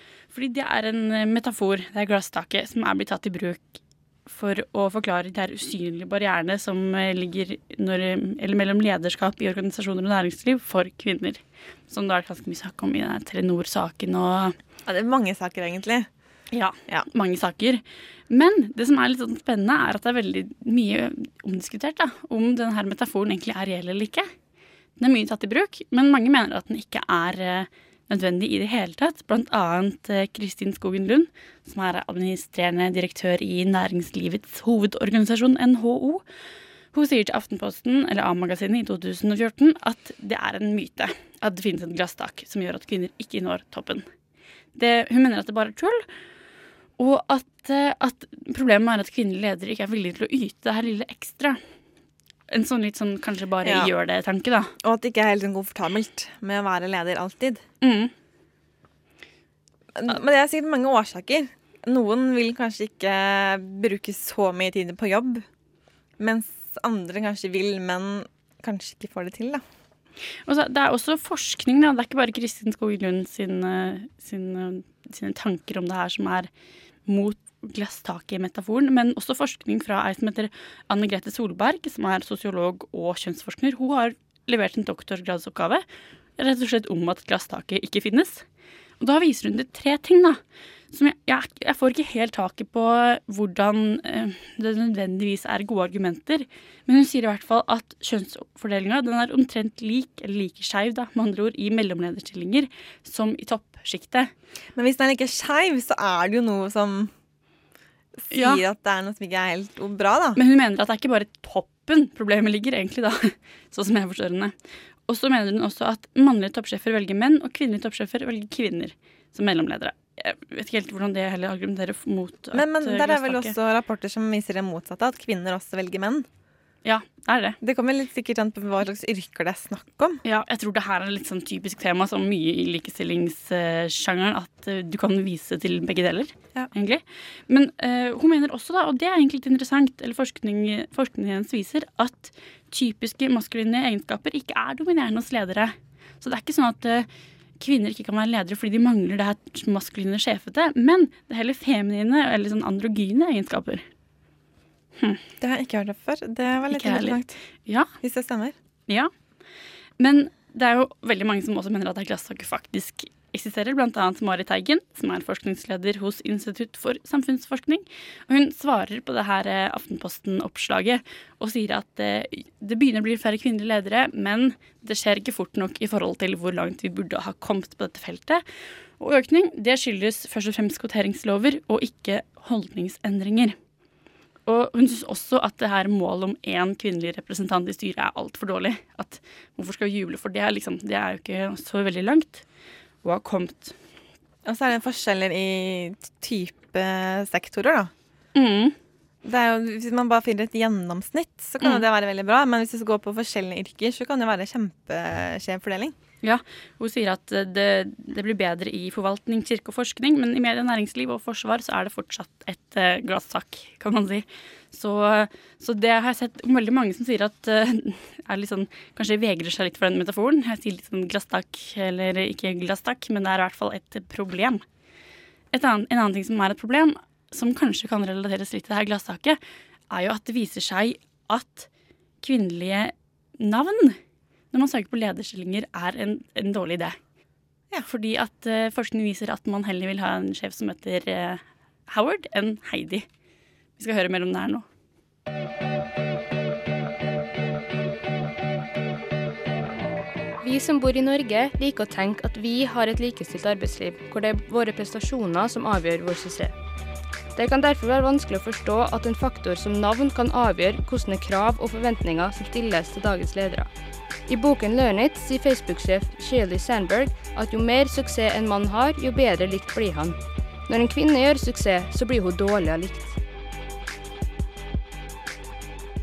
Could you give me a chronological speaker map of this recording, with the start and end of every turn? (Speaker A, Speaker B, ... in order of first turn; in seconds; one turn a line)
Speaker A: 0.3-14.6
Speaker B: 14.9-16.1
Speaker A: 16.5-24.3
Speaker A: 25.0-36.2
Speaker A: 36.9-44.1
Speaker A: 44.8-46.0
Speaker A: 47.0-51.6
Speaker A: 52.5-54.7
Speaker B: 53.6-53.9
Speaker B: 54.8-57.6
Speaker A: 57.8-58.1
Speaker B: 60.0-65.5
Speaker B: 66.2-69.6
Speaker A: 70.5-76.5
Speaker A: 77.1-85.8
Speaker A: 86.4-88.5
Speaker A: 89.0-90.4
Speaker A: 90.9-104.3
Speaker B: 104.8-107.1
Speaker B: 108.2-110.4
Speaker A: 108.3-108.6
Speaker A: 110.4-114.5
Speaker A: 115.1-123.5
Speaker B: 122.5-126.3
Speaker A: 126.8-127.6
Speaker B: 127.6-130.2
Speaker A: 130.2-147.1
Speaker A: 147.6-153.8
Speaker B: 155.4-157.4
Speaker A: 156.7-157.9
Speaker B: 158.0-158.5
Speaker A: 160.0-178.4
Speaker A: 179.0-183.6
Speaker A: 184.5-192.4
Speaker A: 193.0-193.8
Speaker B: 194.4-197.9
Speaker A: 198.3-198.8
Speaker B: 199.2-205.9
Speaker A: 206.2-224.6
Speaker A: 225.5-229.4
Speaker A: 229.9-231.7
Speaker A: 232.2-234.0
Speaker A: 234.5-237.0
Speaker A: 237.8-243.1
Speaker A: 243.8-244.7
Speaker C: 250.4-256.5
Speaker C: 257.4-263.7
Speaker C: 264.3-273.2